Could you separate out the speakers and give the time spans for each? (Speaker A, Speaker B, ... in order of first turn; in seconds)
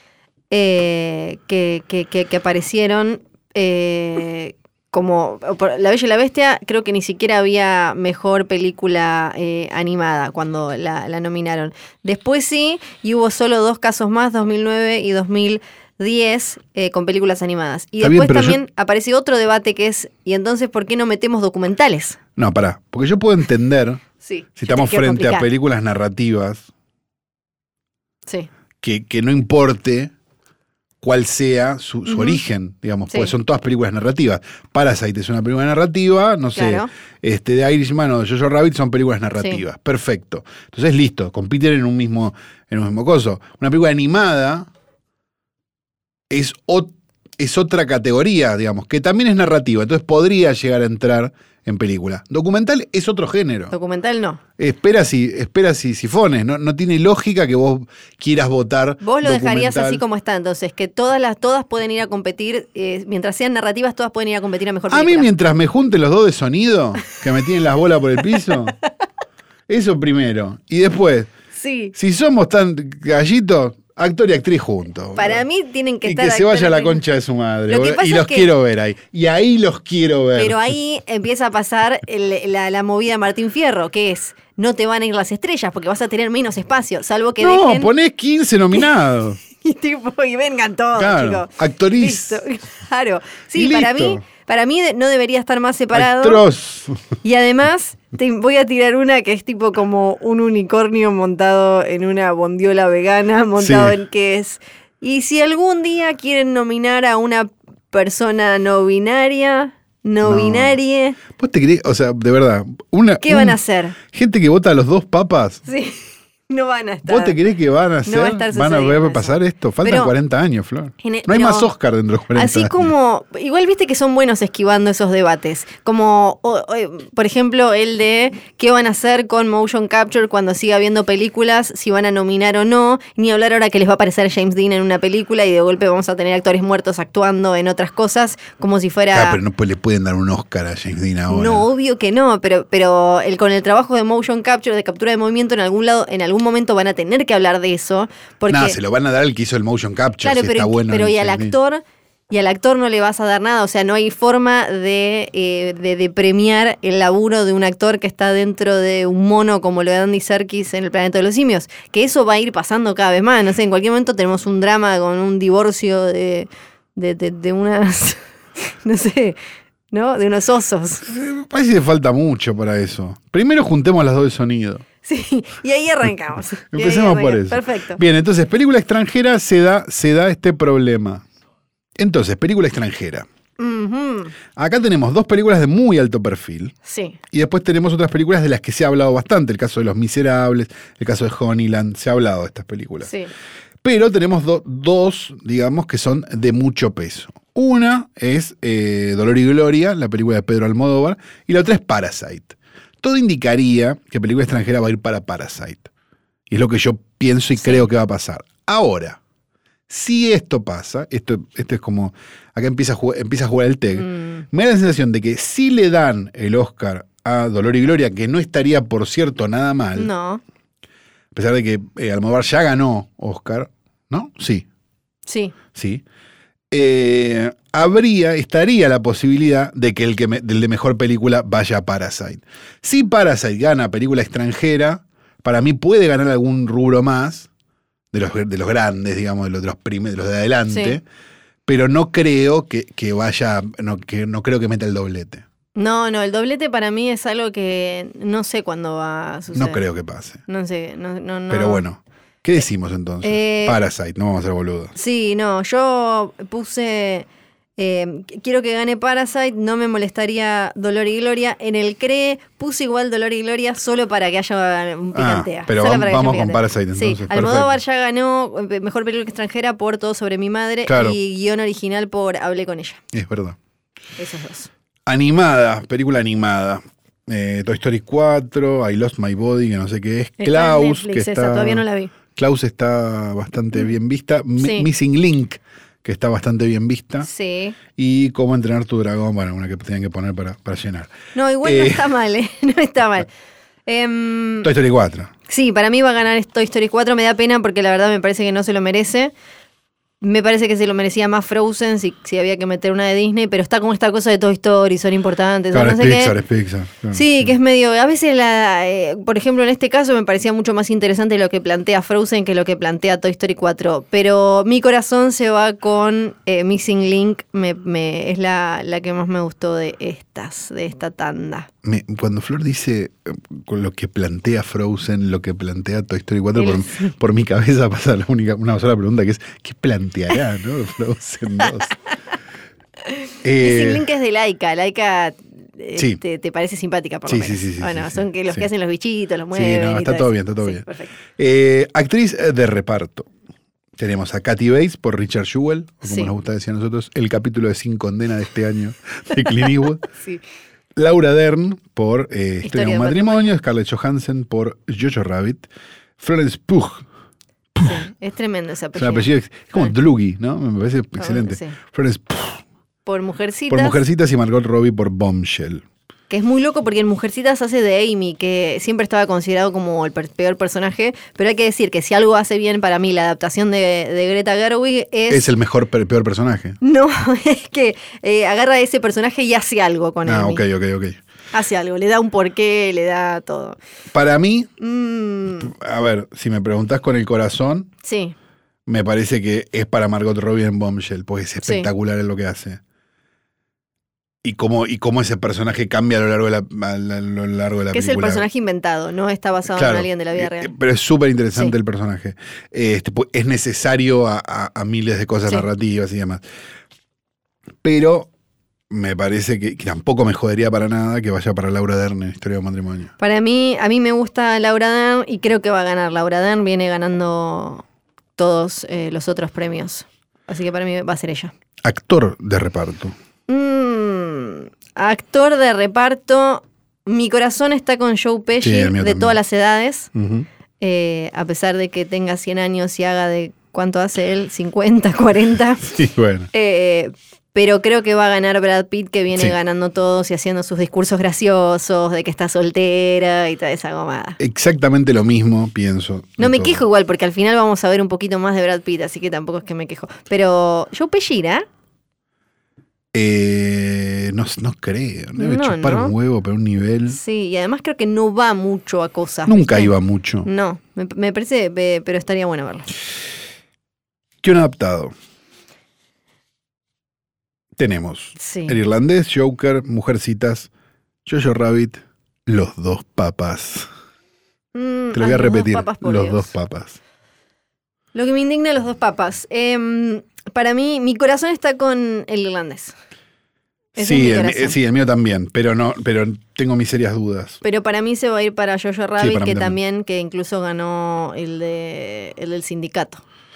Speaker A: 0.5-22.2, 24.2-25.5, 32.1-32.4, 36.5-36.9, 53.7-54.4, 59.0-65.3, 71.5-71.9, 75.1-77.0, 77.7-78.5, 80.3-87.9, 89.5-96.4, 97.2-111.2, 113.2-114.0, 115.7-117.4, 118.0-120.1, 121.0-121.7, 122.3-139.4, 141.3-148.8, 150.2-169.4, 169.9-171.1, 175.0-178.0, 183.6-184.3, 186.8-187.2, 193.0-193.3, 207.6-207.8, 214.0-214.4, 219.9-220.4, 225.3-225.5, 240.7-241.0, 245.8-249.8, 250.5-251.8, 253.2-253.8, 254.9-257.3, 257.8-273.0, 274.2-274.7, 280.4-282.1, 284.6-284.9, 287.2-287.8, 291.3-293.3, 293.9-294.7, 295.5-299.3, 300.2-306.4, 307.1-321.7, 326.5-327.1, 333.0-341.1, 346.0-346.3, 352.6-353.5, 357.8-359.9, 361.2-361.8, 363.1-364.0, 366.3-375.4, 376.8-380.6, 381.5-383.8, 384.8-385.7, 388.0-388.3, 391.6-391.9, 397.9-400.7, 413.2-417.8, 418.4-421.5, 423.5-430.1, 430.8-435.9, 436.5-444.4, 446.4-451.6, 455.4-456.1, 457.1-459.9, 460.4-462.9, 468.4-468.8, 474.7-476.5, 478.1-482.9, 483.9-484.8, 487.6-493.2
Speaker B: 18.0-18.6, 22.4-24.0, 24.6-26.7, 28.8-30.1, 31.0-44.7, 46.3-53.7, 54.6-60.0, 64.9-68.8, 69.7-71.3, 71.9-75.4, 76.0-80.7, 87.4-89.4, 91.0-92.4, 93.5-94.2, 95.9-97.0, 103.6-104.0, 110.2-110.8, 111.3-115.6, 117.0-122.9, 139.1-141.7, 148.5-151.5, 171.1-174.8, 176.7-181.2, 182.0-183.2, 184.6-186.7, 187.3-193.1, 193.8-205.9, 206.5-209.2, 209.9-220.1, 221.3-224.7, 225.7-226.0, 226.7-237.5, 238.1-241.0, 241.7-245.4, 249.5-250.4, 251.5-254.9, 265.1-267.7, 270.9-271.2, 273.1-273.6, 275.1-287.3, 287.9-292.1, 294.6-295.3, 305.7-307.5, 321.8-331.9, 333.4-334.1, 337.2-338.7, 339.5-340.8, 341.4-343.3, 344.0-350.1, 350.9-355.7, 356.2-357.0, 358.9-362.6, 363.7-365.8, 375.3-376.8, 380.2-381.2, 384.1-384.7, 385.6-387.9, 388.9-392.8, 394.4-398.4, 399.7-406.4, 407.8-408.3, 408.9-413.1, 421.8-423.1, 428.6-429.4, 430.1-430.5, 435.8-436.5, 444.4-446.8, 453.1-457.2, 459.5-460.5, 464.4-465.1, 467.8-470.7, 471.2-473.9, 475.1-477.0, 484.0-487.6, 489.2-489.8